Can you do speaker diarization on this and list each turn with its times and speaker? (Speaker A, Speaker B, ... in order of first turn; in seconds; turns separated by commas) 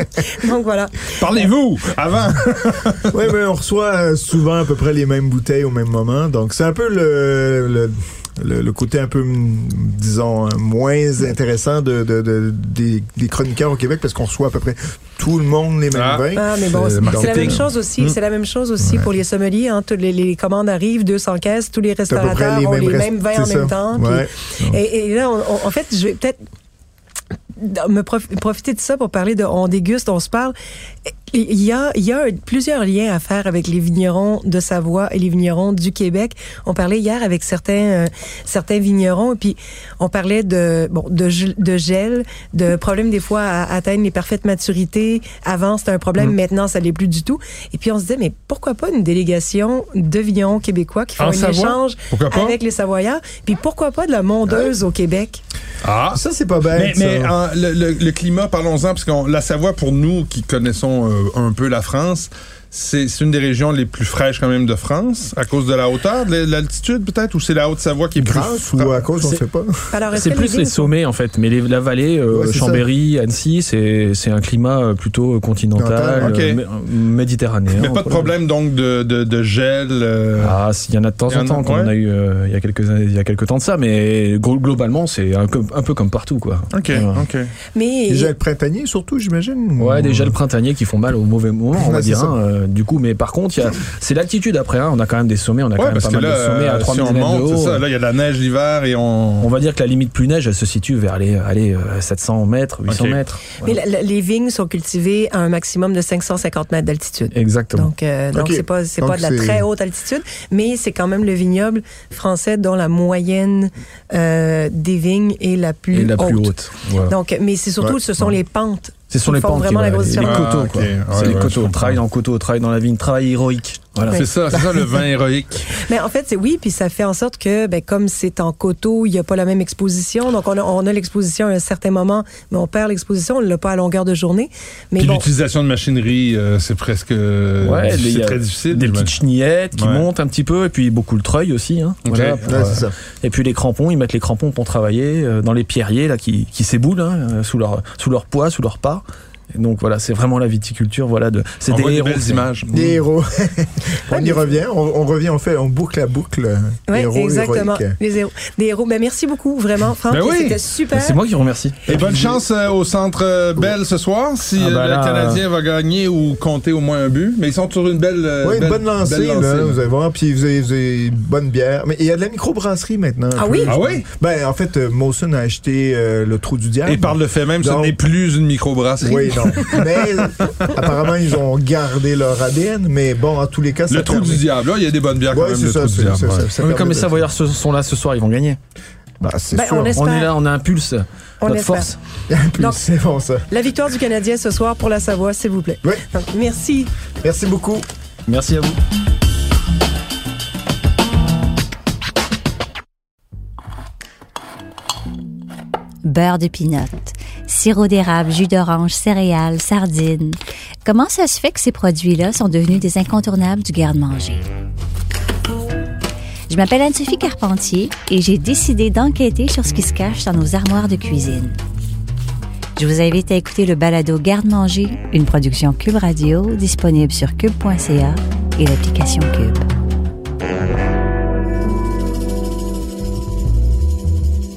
Speaker A: 0.2-1.2, Speaker B: 1.1-3.1, Speaker C: 3.1-17.7, Speaker B: 15.9-18.1, Speaker A: 16.3-26.4, Speaker C: 18.8-19.1, Speaker C: 22.1-24.8, Speaker A: 27.5-30.5, Speaker A: 31.1-55.4, Speaker B: 51.2-52.6, Speaker B: 55.8-56.2, Speaker C: 56.1-57.3, Speaker B: 56.7-69.1, Speaker C: 68.2-69.9, Speaker A: 69.9-70.9, Speaker D: 70.1-78.3, Speaker C: 72.3-72.8, Speaker C: 75.7-76.4, Speaker B: 76.2-76.6, Speaker B: 77.7-80.6, Speaker D: 80.4-87.2, Speaker B: 81.3-81.9, Speaker B: 86.7-87.5, Speaker A: 87.7-88.3, Speaker C: 88.1-90.4, Speaker D: 89.8-97.8, Speaker C: 91.7-92.4, Speaker B: 95.8-99.5, Speaker D: 99.4-103.8, Speaker B: 102.9-103.2, Speaker A: 103.6-116.5, Speaker D: 107.3-107.9, Speaker C: 108.3-109.7, Speaker D: 115.9-117.1, Speaker A: 117.1-120.5, Speaker C: 117.8-118.3, Speaker D: 119.1-124.8, Speaker B: 120.2-122.0, Speaker B: 124.0-125.7, Speaker A: 125.7-135.2, Speaker B: 135.0-139.1, Speaker D: 137.6-152.5, Speaker B: 139.7-140.1, Speaker B: 142.0-142.6, Speaker C: 142.4-142.9, Speaker B: 151.7-152.9, Speaker C: 152.7-157.9, Speaker A: 154.1-154.4, Speaker A: 156.9-161.2, Speaker B: 160.1-160.6, Speaker D: 160.9-162.4, Speaker B: 161.9-169.8, Speaker D: 164.6-165.4, Speaker C: 168.4-177.9, Speaker A: 173.3-173.8, Speaker B: 173.7-174.0, Speaker B: 176.8-180.7, Speaker C: 179.0-184.4, Speaker B: 183.9-186.5, Speaker C: 185.3-187.3, Speaker D: 186.6-188.6, Speaker C: 189.2-190.0, Speaker A: 189.5-190.3, Speaker D: 189.9-191.9, Speaker A: 191.4-191.9, Speaker C: 192.3-193.4, Speaker A: 193.5-196.9, Speaker C: 197.2-197.9, Speaker D: 198.2-198.8, Speaker E: 206.0-214.4, Speaker E: 216.5-221.6, Speaker E: 222.8-229.7